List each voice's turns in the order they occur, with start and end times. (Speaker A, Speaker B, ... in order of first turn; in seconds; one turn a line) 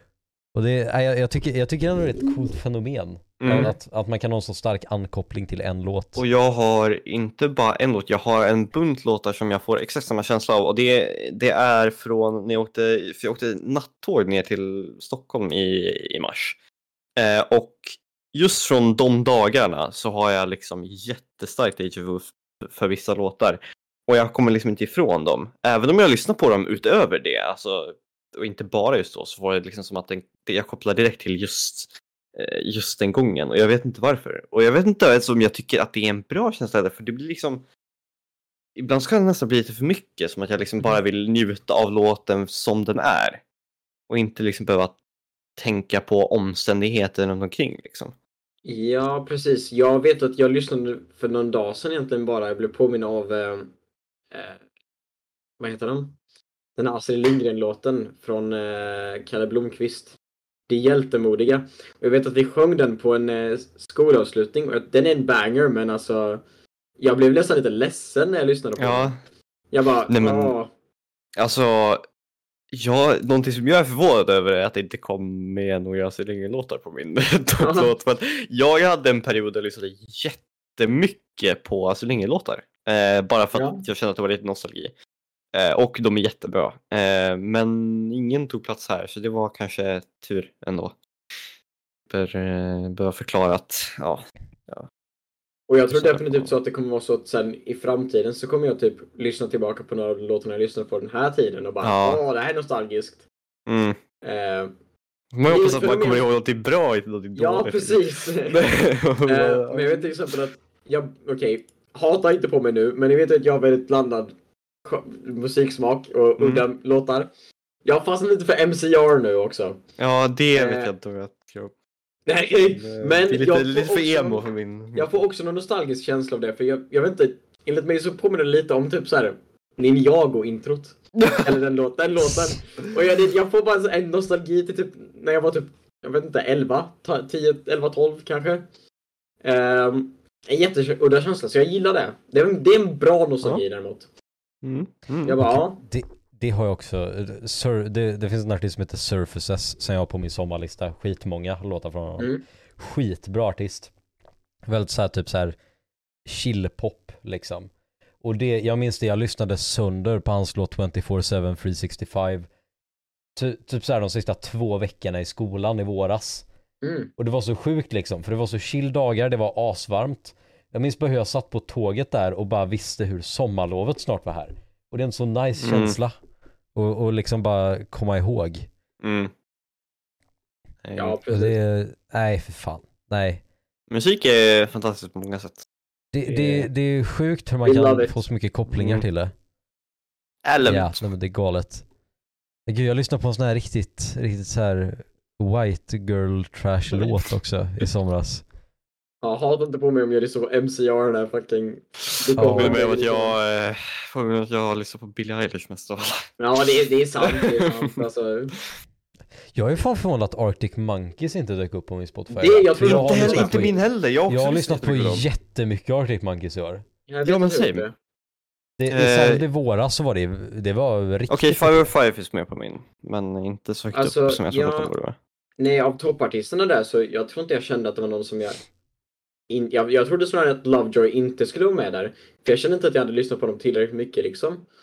Speaker A: 0.6-6.2
Speaker B: 3.4-3.7
Speaker B: 6.2-16.6
Speaker B: 17.2-37.6
Speaker B: 38.8-43.4
Speaker B: 44.1-45.0
Speaker B: 45.6-48.1
Speaker C: 48.6-53.7
Speaker C: 54.3-54.6
Speaker C: 55.6-56.1
Speaker C: 56.8-60.1
Speaker C: 60.7-66.4
Speaker C: 67.0-69.1
Speaker B: 68.8-69.2
Speaker C: 69.7-70.7
Speaker B: 70.1-70.5
Speaker B: 71.4-72.0
Speaker B: 72.7-84.9
Speaker C: 77.6-77.9
Speaker C: 83.5-83.8
Speaker B: 85.5-91.0
Speaker B: 92.1-94.9
Speaker C: 95.7-103.2
Speaker B: 95.9-96.5
Speaker B: 101.8-102.2
Speaker B: 103.7-104.0
Speaker C: 104.2-104.7
Speaker B: 105.3-110.3
Speaker C: 105.5-106.2
Speaker C: 107.4-108.7
Speaker C: 109.2-117.3
Speaker B: 116.4-116.6
Speaker C: 117.8-119.8
Speaker B: 120.0-121.7
Speaker C: 120.5-120.9
Speaker C: 122.3-138.6
Speaker B: 122.7-125.2
Speaker B: 131.2-131.5
Speaker C: 139.4-144.1
Speaker B: 144.6-145.4
Speaker C: 145.2-145.8
Speaker A: 145.4-153.9
Speaker C: 152.2-152.4
Speaker A: 154.7-155.6
Speaker A: 156.2-157.7
Speaker A: 158.2-162.5
Speaker A: 163.4-166.4
Speaker C: 166.8-167.1
Speaker A: 167.2-176.1
Speaker B: 175.6-176.0
Speaker A: 176.7-178.7
Speaker B: 179.0-179.3
Speaker B: 180.8-181.2
Speaker C: 180.9-181.6
Speaker A: 181.3-183.4
Speaker B: 183.9-185.6
Speaker A: 186.1-189.3
Speaker C: 187.6-188.2
Speaker B: 188.7-189.0
Speaker B: 190.4-191.0
Speaker A: 190.6-191.8
Speaker A: 192.7-198.4
Speaker C: 199.2-203.4
Speaker A: 202.4-202.8
Speaker B: 202.4-208.0
Speaker C: 206.4-208.6
Speaker A: 209.6-216.8
Speaker C: 212.3-213.7
Speaker B: 212.8-215.2
Speaker C: 217.1-217.9
Speaker B: 217.2-217.8
Speaker A: 218.8-221.9
Speaker B: 218.9-219.4
Speaker B: 221.3-225.2
Speaker C: 223.9-224.9
Speaker C: 225.6-228.6
Speaker C: 229.5-234.6